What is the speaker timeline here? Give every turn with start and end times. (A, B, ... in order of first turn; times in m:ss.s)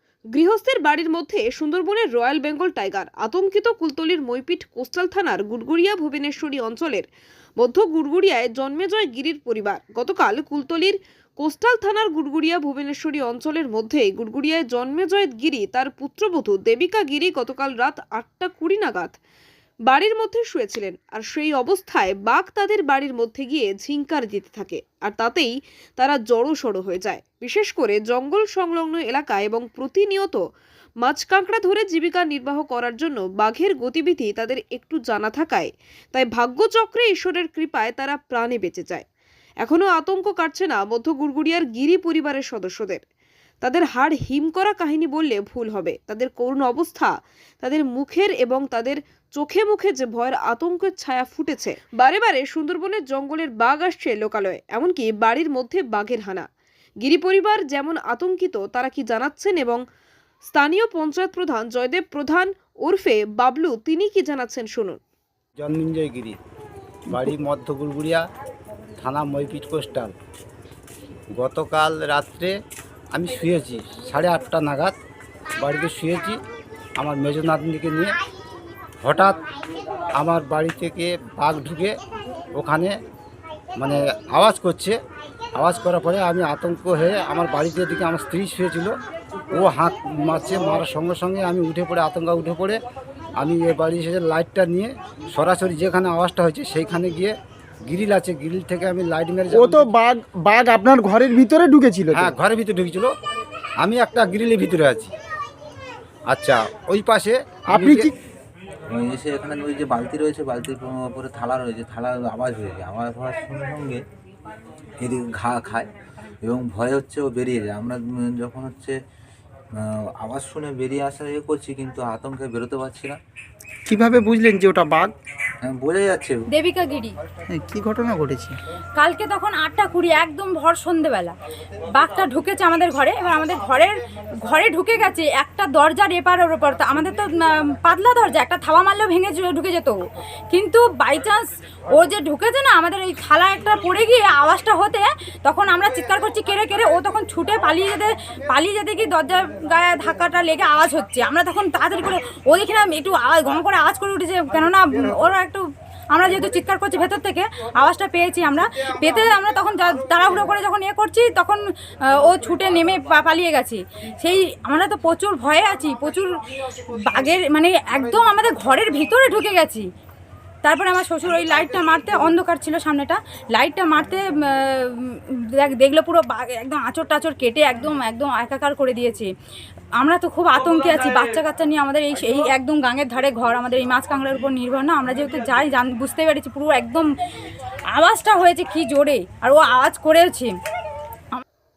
0:00.3-0:19.2 A
0:19.9-0:30.4 A
0:31.0-0:39.0 A
0:39.6-0:43.0 A
0:43.6-0:56.5 A
0:57.0-0:59.8 A
1:00.4-1:05.0 A
1:05.6-1:06.4 B
1:07.1-1:08.2 B
1:09.0-1:10.1 B
1:11.4-1:12.5 B
1:13.1-1:14.9 B
1:15.6-1:16.4 B
1:17.0-1:18.1 B
1:19.0-1:19.5 B
1:20.2-1:22.0 B
1:22.6-1:22.9 B
1:23.8-1:25.0 B
1:25.6-1:28.9 B
1:29.5-1:32.8 B
1:33.4-1:37.3 B
1:37.9-1:39.9 B
1:39.5-1:42.4 C
1:42.1-1:43.1 B
1:43.8-1:45.1 B
1:46.3-1:48.1 B
1:47.7-1:48.1 C
1:48.9-1:54.0 D
1:55.0-1:55.9 D
1:56.4-1:58.9 D
1:59.8-2:03.2 D
2:03.9-2:05.1 C
2:05.6-2:06.4 D
2:06.5-2:07.1 E
2:07.5-2:08.6 C
2:09.0-2:11.3 E
2:12.0-2:13.9 E
2:14.5-2:20.0 E
2:20.5-2:21.5 E
2:22.0-2:41.6 E
2:42.1-2:49.8 E
2:50.6-2:59.3 E
3:00.0-3:07.1 E
3:07.9-3:10.5 E